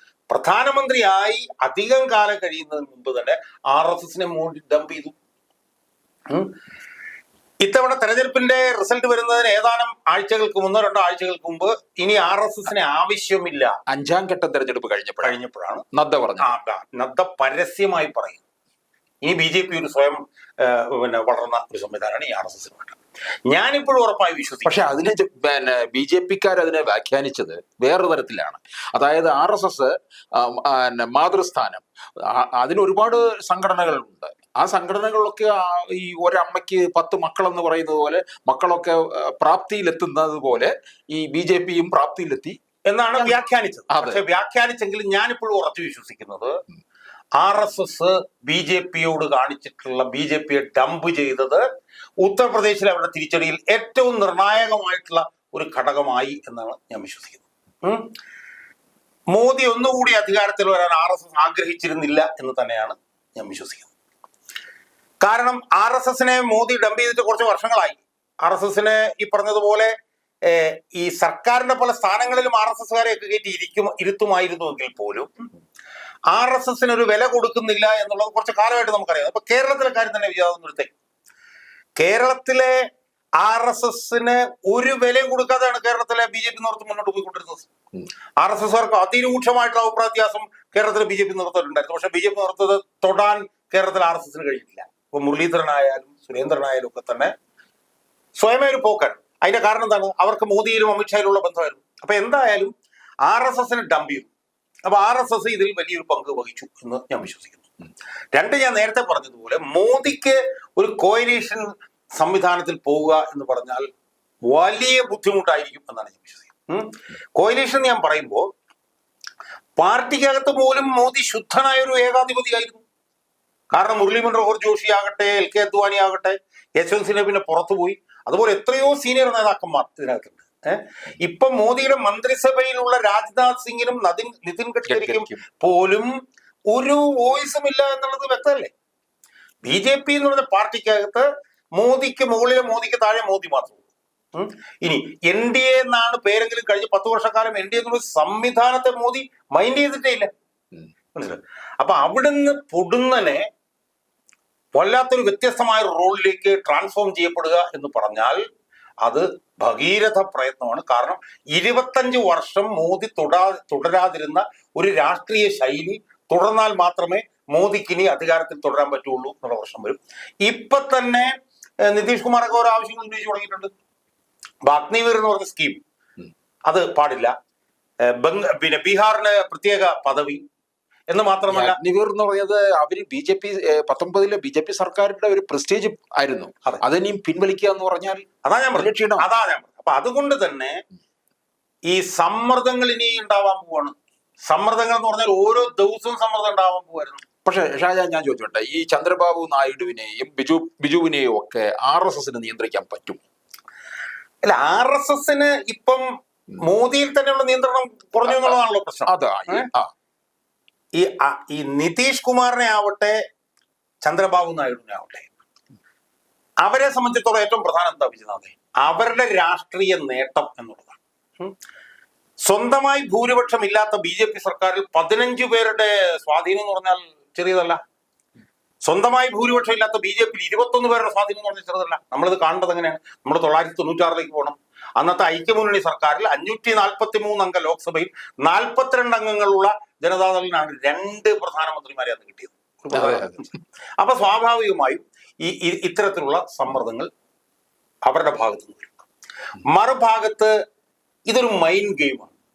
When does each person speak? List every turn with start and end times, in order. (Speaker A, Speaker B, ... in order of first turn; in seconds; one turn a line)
Speaker A: 0.3-5.1
Speaker A: 7.6-13.7
Speaker B: 13.9-15.3
Speaker A: 15.2-15.8
Speaker B: 15.9-16.5
Speaker A: 16.4-18.4
Speaker A: 19.2-23.0
Speaker A: 23.5-24.9
Speaker B: 24.6-42.6
Speaker A: 42.9-46.6
Speaker B: 43.9-44.2
Speaker A: 47.4-51.6
Speaker A: 52.2-58.1
Speaker A: 59.3-63.9
Speaker A: 65.2-69.9
Speaker A: 70.5-75.3
Speaker A: 76.3-80.9
Speaker A: 82.0-82.8
Speaker A: 83.4-87.7
Speaker A: 88.4-97.3
Speaker A: 98.4-102.7
Speaker A: 103.2-104.3
Speaker A: 104.8-107.6
Speaker A: 108.3-113.8
Speaker A: 114.5-118.5
Speaker A: 119.8-122.8
Speaker A: 123.7-136.1
Speaker B: 134.9-135.4
Speaker A: 136.7-138.7
Speaker A: 139.6-141.2
Speaker A: 141.8-150.3
Speaker A: 151.1-153.4
Speaker A: 154.8-158.4
Speaker A: 159.0-171.3
Speaker A: 171.9-173.7
Speaker A: 174.7-175.8
Speaker A: 176.7-177.3
Speaker A: 178.0-180.4
Speaker A: 181.1-181.8
Speaker B: 181.5-189.3
Speaker A: 188.4-190.8
Speaker A: 191.9-197.2
Speaker B: 197.4-203.2
Speaker A: 204.4-206.0
Speaker A: 206.6-209.7
Speaker B: 208.2-209.9
Speaker A: 211.0-213.2
Speaker A: 214.0-215.3
Speaker A: 216.6-221.5
Speaker A: 222.4-227.8
Speaker A: 228.8-243.5
Speaker B: 242.9-243.6
Speaker A: 244.0-247.1
Speaker A: 248.1-249.0
Speaker A: 249.7-250.5
Speaker A: 251.3-252.3